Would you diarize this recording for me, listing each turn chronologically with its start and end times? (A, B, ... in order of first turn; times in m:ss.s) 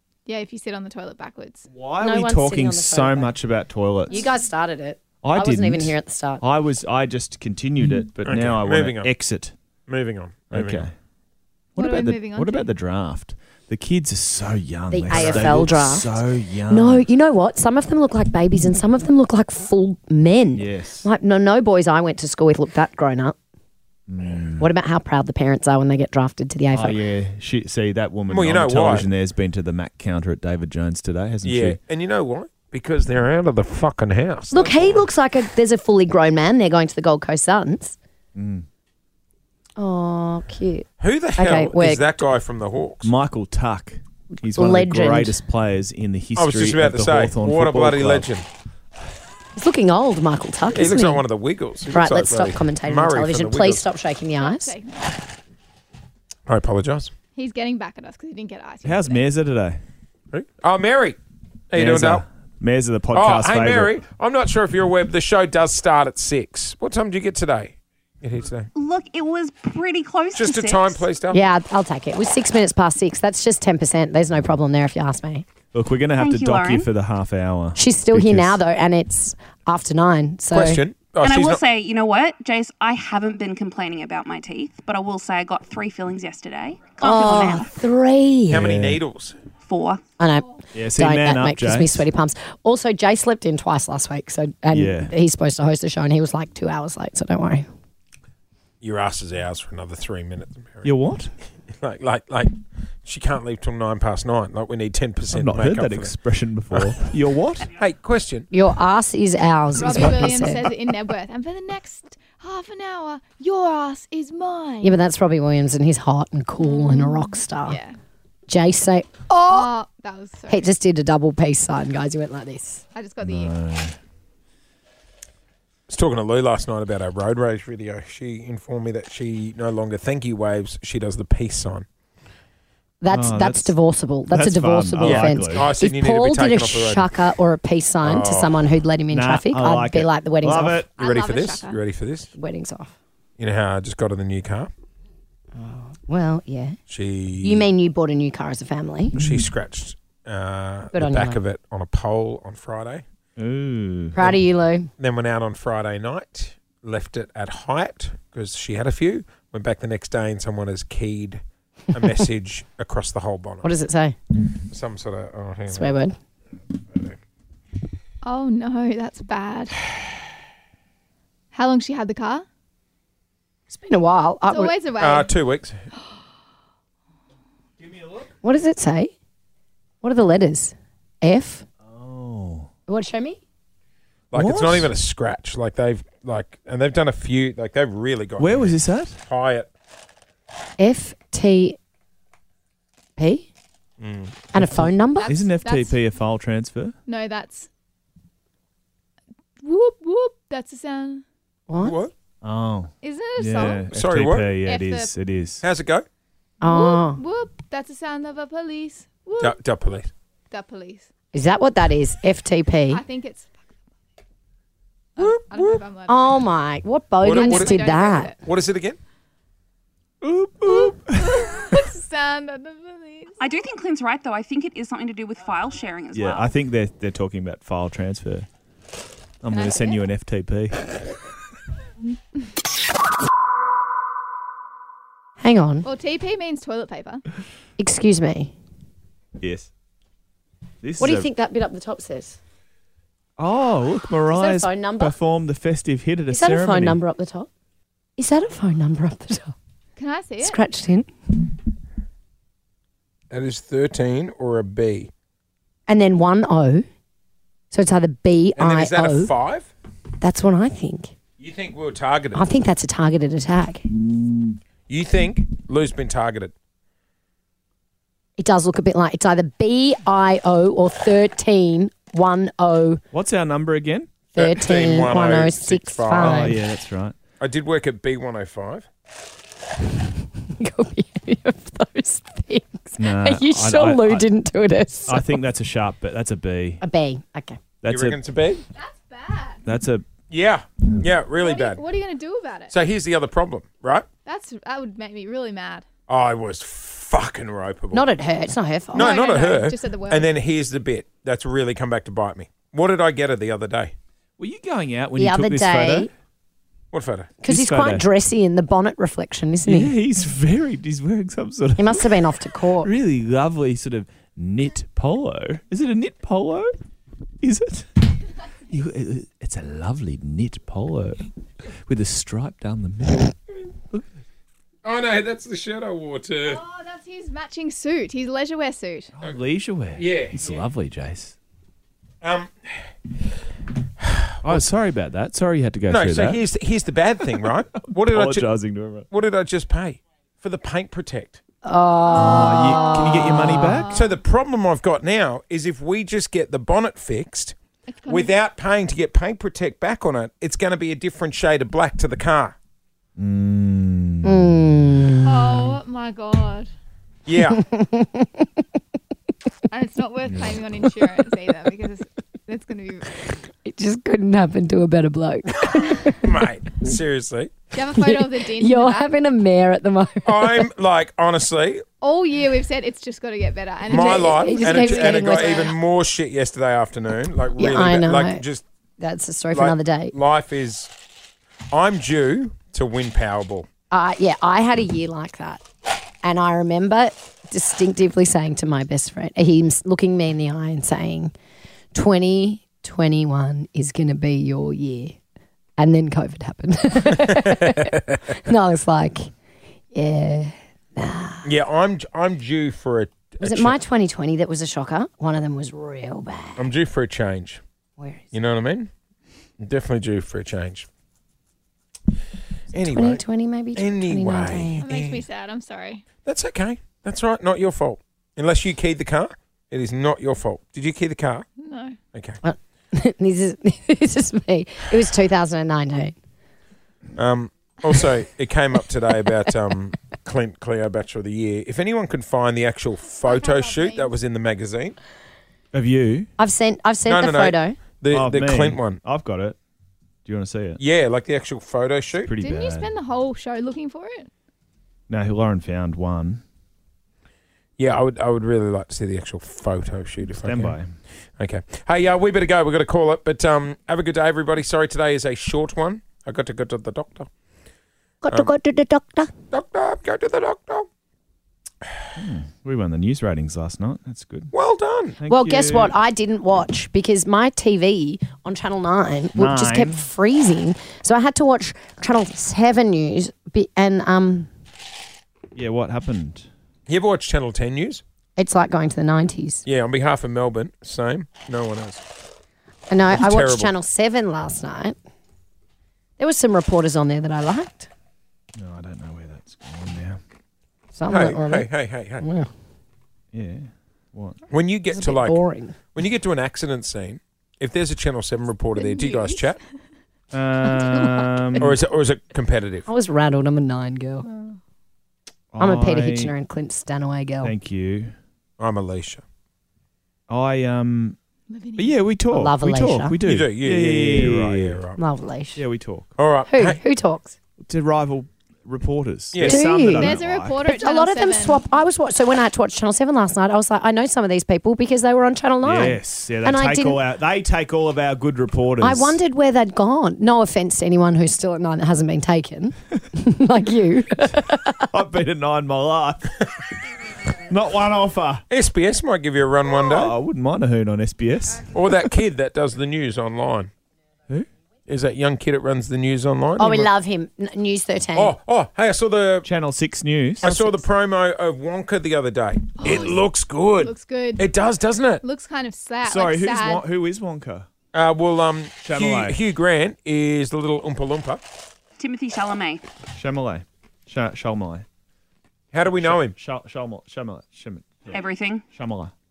0:00.2-0:01.7 A
0:01.7-0:04.2 B
0:02.0-0:03.4 C
0:04.1-0:04.4 A
0:04.1-0:06.4 C
0:05.2-0:09.5 B
0:08.2-0:09.1 D
0:09.9-0:10.9 D
0:10.5-0:10.9 B
0:11.8-0:12.7 A
0:11.8-0:17.1 B
0:14.9-0:23.4 C
0:15.1-0:15.7 D
0:20.5-0:21.1 B
0:24.1-0:24.7 B
0:24.6-0:27.0 C
0:26.7-0:31.8 B
0:28.3-0:29.1 D
0:31.4-0:35.1 D
0:34.5-0:38.0 C
0:38.3-0:38.6 B
0:39.8-0:42.2 C
0:41.0-0:43.1 D
0:43.0-0:48.3 B
0:44.5-0:45.4 C
0:46.3-0:48.4 D
0:49.6-0:51.2 C
0:50.7-0:53.9 D
0:51.9-0:54.7 C
0:54.4-0:55.2 A
0:56.5-0:57.1 D
0:57.3-0:59.2 A
0:58.8-0:59.8 B
1:00.3-1:01.2 D
1:01.7-1:02.2 D
1:01.7-1:03.9 B
1:03.1-1:08.7 D
1:08.8-1:10.9 E
1:10.3-1:11.4 D
1:11.3-1:15.4 C
1:15.7-1:18.6 B
1:16.1-1:16.8 E
1:17.7-1:20.8 C
1:20.5-1:21.6 D
1:21.2-1:27.7 E
1:27.0-1:28.7 C
1:28.5-1:29.4 D
1:28.6-1:29.0 B
1:29.7-1:30.0 E
1:30.2-1:37.7 C
1:30.7-1:32.1 B
1:34.7-1:35.1 B
1:38.8-1:40.9 D
1:40.8-1:41.3 B
1:41.8-1:46.2 D
1:45.3-1:47.7 B
1:46.7-1:47.0 D
1:47.7-1:48.5 D
1:48.5-1:50.7 C
1:49.8-1:55.0 A
1:54.8-1:57.8 C
1:56.6-1:58.0 A
1:58.5-1:59.7 C
1:59.3-2:00.7 A
2:00.5-2:02.8 C
2:02.9-2:03.5 A
2:03.2-2:04.0 B
2:05.9-2:11.8 D
2:13.0-2:20.8 C
2:13.1-2:13.8 B
2:14.3-2:15.7 B
2:15.0-2:17.1 D
2:18.0-2:18.6 D
2:19.1-2:20.9 B
2:21.0-2:21.8 A
2:21.0-2:22.3 D
2:22.4-2:22.9 C
2:23.4-2:24.7 D
2:25.6-2:26.8 C
2:26.9-2:27.7 D
2:27.4-2:29.2 C
2:29.2-2:33.0 D
2:29.2-2:29.5 B
2:30.9-2:31.4 C
2:33.4-2:34.2 B
2:34.1-2:34.9 C
2:35.0-2:41.4 D
2:41.9-2:43.7 D
2:43.6-2:44.2 C
2:44.7-2:45.9 D
2:45.7-2:46.2 C
2:46.9-2:47.2 D
2:48.2-2:49.8 A
2:51.5-2:52.4 A
2:53.7-2:54.7 C
2:54.5-2:55.4 A
2:55.0-2:55.8 D
2:57.8-2:58.2 B
2:58.4-2:59.1 C
3:00.0-3:01.6 C
3:01.9-3:02.7 B
3:02.9-3:03.4 C
3:04.3-3:09.7 D
3:04.3-3:04.9 B
3:08.4-3:09.2 B
3:10.8-3:11.8 C
3:13.2-3:13.5 C
3:14.0-3:14.4 D
3:14.5-3:15.3 C
3:14.6-3:17.0 B
3:15.2-3:16.0 A
3:17.1-3:17.7 A
3:19.6-3:21.2 A
3:21.7-3:21.9 C
3:21.8-3:22.1 D
3:22.4-3:25.6 B
3:23.0-3:23.9 A
3:23.9-3:24.5 D
3:24.6-3:25.1 A
3:25.6-3:26.0 D
3:26.6-3:27.2 C
3:26.6-3:29.6 A
3:29.4-3:30.1 D
3:30.5-3:31.1 A
3:31.3-3:33.0 C
3:32.9-3:33.5 A
3:35.2-3:36.4 A
3:35.2-3:35.8 D
3:36.1-3:38.3 C
3:37.2-3:37.8 D
3:37.3-3:38.4 A
3:38.4-3:39.0 D
3:40.2-3:41.4 B
3:40.6-3:43.4 A
3:43.4-3:46.4 E
3:46.1-3:48.5 B
3:49.4-3:50.8 B
3:49.5-3:50.0 A
3:55.4-3:55.9 C
3:55.8-3:57.2 A
3:57.8-3:58.5 C
3:59.4-3:59.7 B
4:00.8-4:01.3 B
4:01.0-4:02.4 C
4:03.4-4:07.0 B
4:04.3-4:05.2 C
4:06.3-4:07.5 C
4:08.2-4:09.5 C
4:10.0-4:10.6 A
4:10.4-4:11.1 C
4:13.3-4:15.1 D
4:15.9-4:16.8 C
4:17.7-4:19.3 C
4:18.6-4:19.7 D
4:20.2-4:21.1 C
4:21.4-4:22.5 D
4:22.3-4:23.8 C
4:24.9-4:26.5 D
4:28.4-4:33.0 C
4:33.1-4:34.1 B
4:34.3-4:36.6 C
4:34.4-4:36.6 D
4:36.2-4:37.2 B
4:37.4-4:38.9 D
4:40.5-4:45.4 C
4:43.0-4:44.3 B
4:45.1-4:46.8 B
4:46.8-4:47.6 C
4:47.8-4:48.2 B
4:47.9-4:48.6 D
4:48.7-4:49.6 A
4:49.6-4:50.0 B
4:50.3-4:51.8 D
4:51.3-4:52.7 A
4:52.7-4:54.1 D
4:54.2-4:55.8 A
4:56.1-4:58.1 D
4:57.9-4:59.1 C
4:58.9-5:03.9 D
4:58.9-5:00.3 A
5:04.4-5:06.1 B
5:05.2-5:06.1 C
5:06.9-5:07.4 D
5:07.4-5:09.9 C
5:07.5-5:08.0 B
5:09.6-5:12.2 B
5:11.8-5:12.9 C
5:12.8-5:16.8 B
5:17.4-5:18.0 B
5:18.7-5:21.3 B
5:21.8-5:23.4 B
5:24.8-5:26.6 D
5:26.4-5:29.1 A
5:29.2-5:31.3 B
5:30.0-5:30.4 D
5:32.2-5:32.8 D
5:34.0-5:34.7 D
5:34.4-5:36.4 B
5:35.9-5:38.5 D
5:37.3-5:39.1 B
5:39.1-5:41.4 D
5:41.6-5:43.7 C
5:42.1-5:44.2 A
5:42.3-5:44.0 B
5:43.9-5:47.5 D
5:47.9-5:48.3 A
5:48.1-5:52.6 D
5:53.2-5:54.4 B
5:54.2-5:55.6 C
5:55.2-5:56.7 A
5:57.2-5:57.6 D
5:57.5-5:58.4 C
5:59.7-6:03.2 A
6:03.6-6:06.3 C
6:06.2-6:07.5 D
6:07.7-6:09.1 A
6:08.0-6:10.7 C
6:10.2-6:11.8 D
6:12.0-6:15.7 A
6:13.9-6:18.6 D
6:13.9-6:15.7 C
6:17.6-6:18.4 C
6:19.0-6:20.2 C
6:19.5-6:20.9 D
6:21.7-6:23.7 D
6:23.9-6:25.6 C
6:26.2-6:31.3 C
6:31.9-6:35.2 C
6:35.8-6:39.3 C
6:39.9-6:41.4 C
6:41.4-6:43.8 D
6:43.4-6:46.7 C
6:46.6-6:47.6 D
6:48.0-6:48.3 C
6:48.3-6:48.9 D
6:49.6-6:50.8 D
6:52.7-6:53.2 D
6:52.8-6:54.8 C
6:53.8-6:55.2 D
6:54.8-6:56.0 A
6:56.2-7:01.4 D
7:01.6-7:02.0 A
7:02.1-7:02.4 D
7:02.4-7:06.1 C
7:07.2-7:15.0 D
7:13.1-7:14.2 A
7:15.7-7:16.3 B
7:16.4-7:17.8 C
7:17.0-7:19.0 D
7:18.1-7:19.6 B
7:20.2-7:20.8 B
7:20.8-7:22.3 D
7:22.2-7:22.9 B
7:22.4-7:24.3 A
7:25.1-7:26.4 B
7:27.8-7:30.8 D
7:30.3-7:30.9 B
7:31.4-7:37.3 D
7:38.2-7:39.3 C
7:39.5-7:40.9 D
7:42.2-7:44.5 B
7:44.5-7:45.2 D
7:45.2-7:45.9 B
7:45.3-7:54.5 C
7:49.4-7:50.0 B
7:55.5-7:56.5 B
7:56.9-7:58.0 D
7:58.4-7:59.6 C
7:59.6-8:02.0 D
8:02.9-8:05.0 C
8:03.1-8:03.7 D
8:06.2-8:07.9 C
8:08.6-8:10.2 B
8:10.9-8:11.7 C
8:11.1-8:12.2 D
8:12.2-8:12.5 C
8:13.3-8:14.4 B
8:14.5-8:15.4 D
8:14.9-8:15.8 C
8:15.9-8:19.6 D
8:18.8-8:19.5 A
8:20.3-8:21.8 B
8:20.7-8:21.6 C
8:21.6-8:22.9 D
8:22.9-8:24.3 C
8:25.5-8:26.3 B
8:25.6-8:27.5 C
8:27.4-8:28.1 B
8:28.6-8:29.2 D
8:30.3-8:31.2 B
8:31.5-8:32.0 A
8:31.8-8:34.8 B
8:32.3-8:33.2 C
8:33.2-8:35.0 D
8:35.0-8:35.6 C
8:35.6-8:36.1 B
8:36.2-8:36.8 D
8:36.5-8:37.4 C
8:37.7-8:40.6 B
8:39.3-8:39.7 D
8:39.4-8:47.0 C
8:39.7-8:41.6 A
8:45.6-8:49.2 B
8:48.8-8:54.9 C
8:54.9-8:56.4 B
8:57.5-8:58.4 B
8:58.5-9:00.2 D
8:59.8-9:01.7 B
9:01.7-9:03.7 D
9:04.9-9:06.9 D
9:06.6-9:08.4 C
9:08.2-9:09.5 D
9:09.4-9:10.5 B
9:10.4-9:10.8 C
9:10.4-9:15.2 D
9:12.8-9:13.2 A
9:13.8-9:14.5 A
9:15.2-9:16.8 A
9:16.0-9:17.7 B
9:17.9-9:21.4 D
9:18.8-9:19.4 B
9:22.0-9:22.8 E
9:23.1-9:24.8 B
9:25.7-9:26.3 D
9:25.9-9:29.1 B
9:28.1-9:28.6 E